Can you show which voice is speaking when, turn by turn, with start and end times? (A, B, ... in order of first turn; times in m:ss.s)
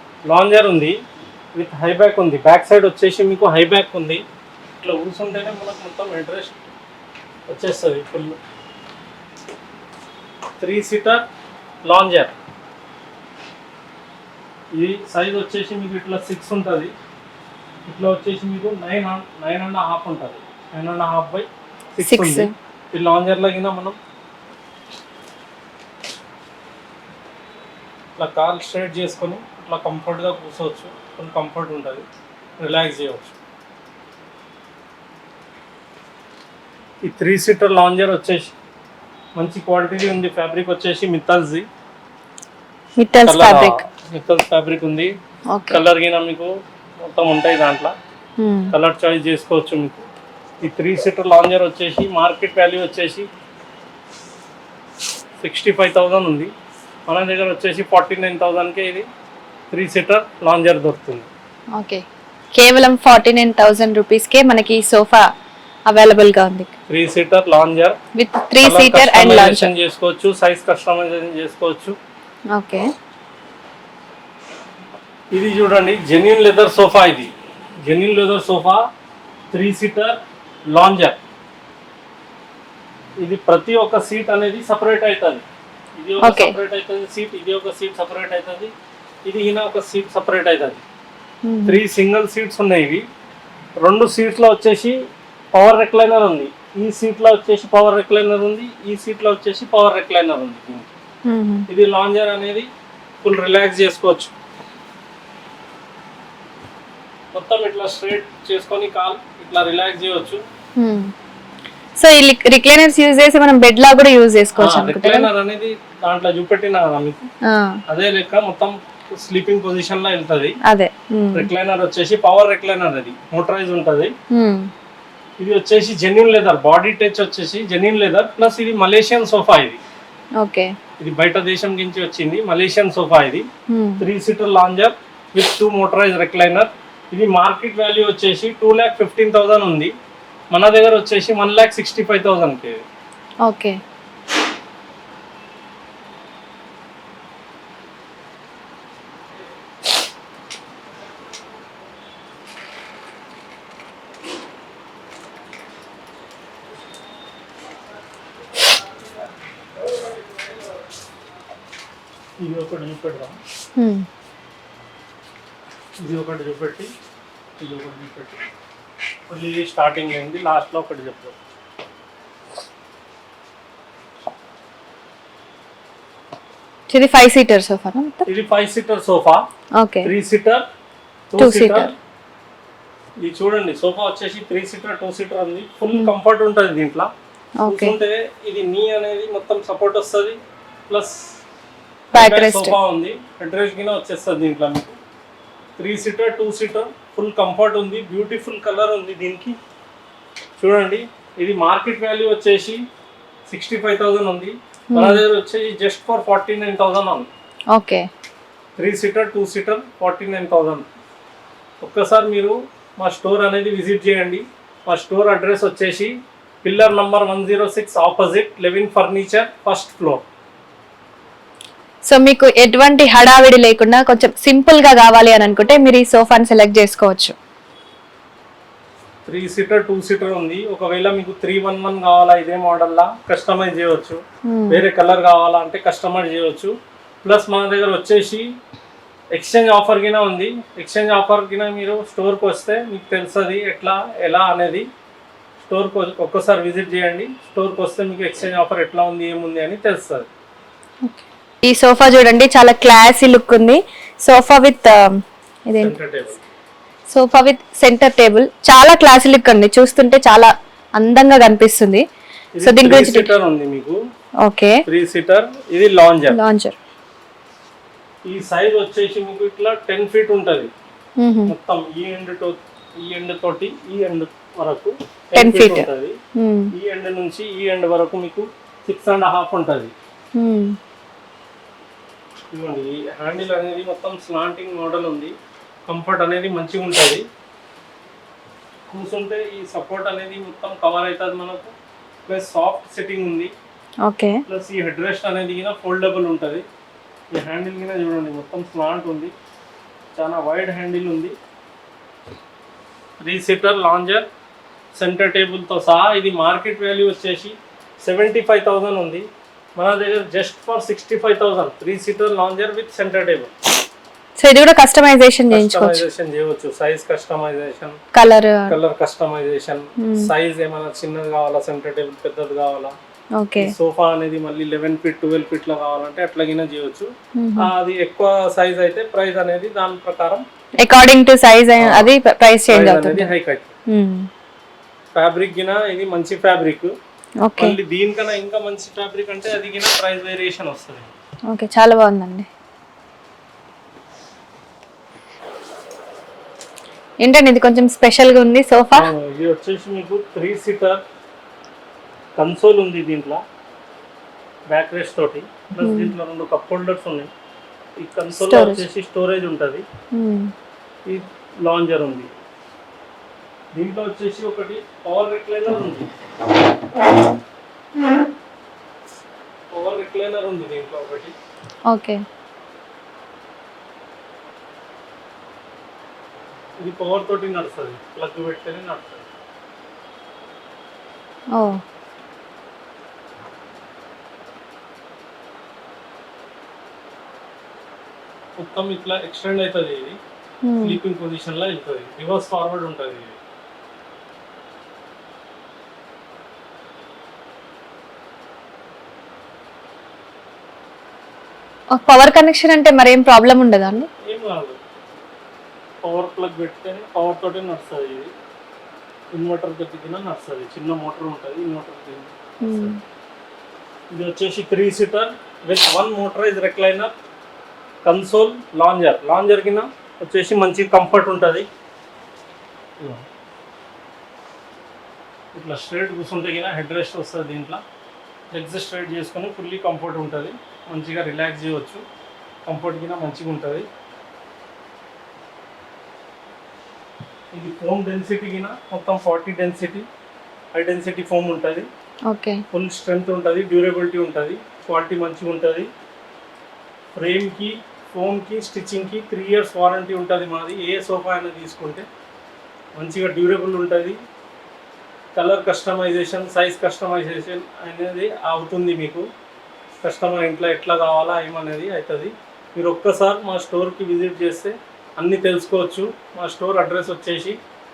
0:00.3-0:01.0 A
0:01.6-0:04.2 A
0:04.8-0:06.6 A
0:07.5-0:08.4 A
0:10.6-0:11.2 A
0:11.9-0:12.3 A
0:14.8-0:16.9 A
0:17.9-0:24.0 A
0:22.0-0:22.5 B
0:28.2-0:32.1 A
0:32.6-0:33.4 A
0:37.0-0:38.5 A
0:39.4-0:41.7 A
0:43.0-0:43.8 B
0:43.2-0:45.1 A
0:45.5-0:45.8 B
0:45.7-0:46.5 A
0:47.0-0:47.9 A
0:48.4-0:48.7 B
0:48.7-0:50.1 A
0:50.6-0:53.3 A
0:55.4-0:56.5 A
0:57.1-0:59.1 A
0:59.7-1:01.3 A
1:01.8-1:02.0 B
1:02.6-1:05.2 B
1:05.9-1:06.7 B
1:06.9-1:08.0 A
1:08.2-1:09.7 B
1:08.6-1:12.0 A
1:12.5-1:12.9 B
1:15.3-1:17.3 A
1:17.8-1:18.9 A
1:19.5-1:20.2 A
1:20.7-1:21.2 A
1:23.2-1:25.4 A
1:26.0-1:28.7 A
1:26.2-1:26.6 B
1:29.3-1:30.8 A
1:31.4-1:31.8 B
1:31.7-1:33.1 A
1:33.8-1:35.0 A
1:35.6-1:40.9 A
1:41.3-1:41.7 B
1:41.7-1:42.7 A
1:43.2-1:44.3 A
1:47.3-1:50.4 A
1:50.8-1:51.1 B
1:52.0-1:55.3 B
1:54.6-1:57.3 A
1:57.4-1:57.8 B
1:57.9-2:00.6 A
2:00.7-2:01.5 B
2:01.3-2:04.1 A
2:04.3-2:04.7 B
2:05.4-2:09.8 A
2:10.4-2:10.7 B
2:11.0-2:13.5 A
2:13.7-2:14.0 B
2:14.0-2:19.9 A
2:20.5-2:22.8 A
2:23.4-2:23.8 B
2:42.4-2:43.4 A
2:43.8-2:44.1 B
2:46.0-2:46.9 A
2:47.6-2:48.4 A
2:49.3-2:51.4 A
2:56.9-2:58.3 B
2:58.3-2:59.4 A
2:59.8-3:00.1 B
3:00.0-3:00.7 A
3:01.3-3:02.0 A
3:01.4-3:01.9 B
3:03.2-3:07.1 A
3:07.6-3:08.0 B
3:07.7-3:11.4 A
3:12.1-3:12.8 B
3:12.1-3:15.0 A
3:15.8-3:19.6 A
3:20.6-3:22.8 A
3:23.5-3:27.3 A
3:24.9-3:25.2 B
3:27.7-3:28.1 B
3:28.8-3:30.9 A
3:31.8-3:40.2 A
3:42.1-3:47.4 B
3:49.3-3:58.5 A
3:54.5-3:54.8 B
3:59.3-4:04.9 A
4:05.6-4:10.3 A
4:11.1-4:16.0 B
4:15.8-4:16.4 A
4:17.1-4:22.0 B
4:22.6-4:24.0 A
4:22.6-4:23.3 B
4:24.4-4:24.8 B
4:24.9-4:26.4 A
4:26.3-4:26.8 B
4:28.3-4:30.7 A
4:31.2-4:31.5 B
4:31.5-4:36.2 A
4:35.4-4:36.7 B
4:36.7-4:39.9 A
4:40.4-4:40.8 B
4:42.5-4:45.4 A
4:45.9-4:47.2 A
4:48.9-4:51.7 A
4:52.3-4:53.5 A
4:54.0-4:54.4 B
4:54.5-4:56.7 A
4:57.3-4:59.3 A
5:00.2-5:01.4 A
5:03.2-5:04.3 A
5:05.0-5:13.5 A
5:14.4-5:16.0 B
5:15.5-5:18.0 A
5:18.1-5:18.7 B
5:18.7-5:23.0 A
5:20.0-5:20.3 B
5:23.4-5:23.7 B
5:23.6-5:30.4 A
5:27.4-5:27.7 B
5:30.8-5:33.3 B
5:31.8-5:32.1 A
5:32.7-5:33.8 A
5:33.9-5:34.3 B
5:35.2-5:37.0 A
5:37.4-5:37.8 B
5:37.6-5:41.1 A
5:41.5-5:42.5 B
5:47.2-5:49.1 B
5:48.9-5:51.0 A
5:52.4-5:53.4 A
5:54.7-5:57.3 A
5:55.8-5:56.1 B
5:58.0-5:59.8 A
5:58.3-5:58.9 B
6:00.1-6:00.5 B
6:01.1-6:02.3 A
6:03.8-6:06.1 A
6:09.7-6:11.4 A
6:11.9-6:12.2 B
6:16.8-6:19.3 A
6:28.6-6:30.2 A
6:30.6-6:31.0 B
6:30.8-6:33.4 A
6:41.9-6:44.1 B
6:44.3-6:44.8 A
6:46.0-6:48.3 A
6:49.3-6:52.9 A
6:52.6-6:53.0 B
6:54.1-6:57.1 A
6:58.0-7:01.7 A
7:03.0-7:03.2 A
7:05.6-7:07.8 A
7:08.5-7:12.0 A
7:12.7-7:13.9 A
7:17.6-7:20.1 A
7:20.8-7:21.9 A
7:22.3-7:22.6 B
7:22.7-7:25.9 A
7:27.2-7:32.1 A
7:33.0-7:34.2 A
7:35.4-7:39.3 A
7:40.0-7:47.6 A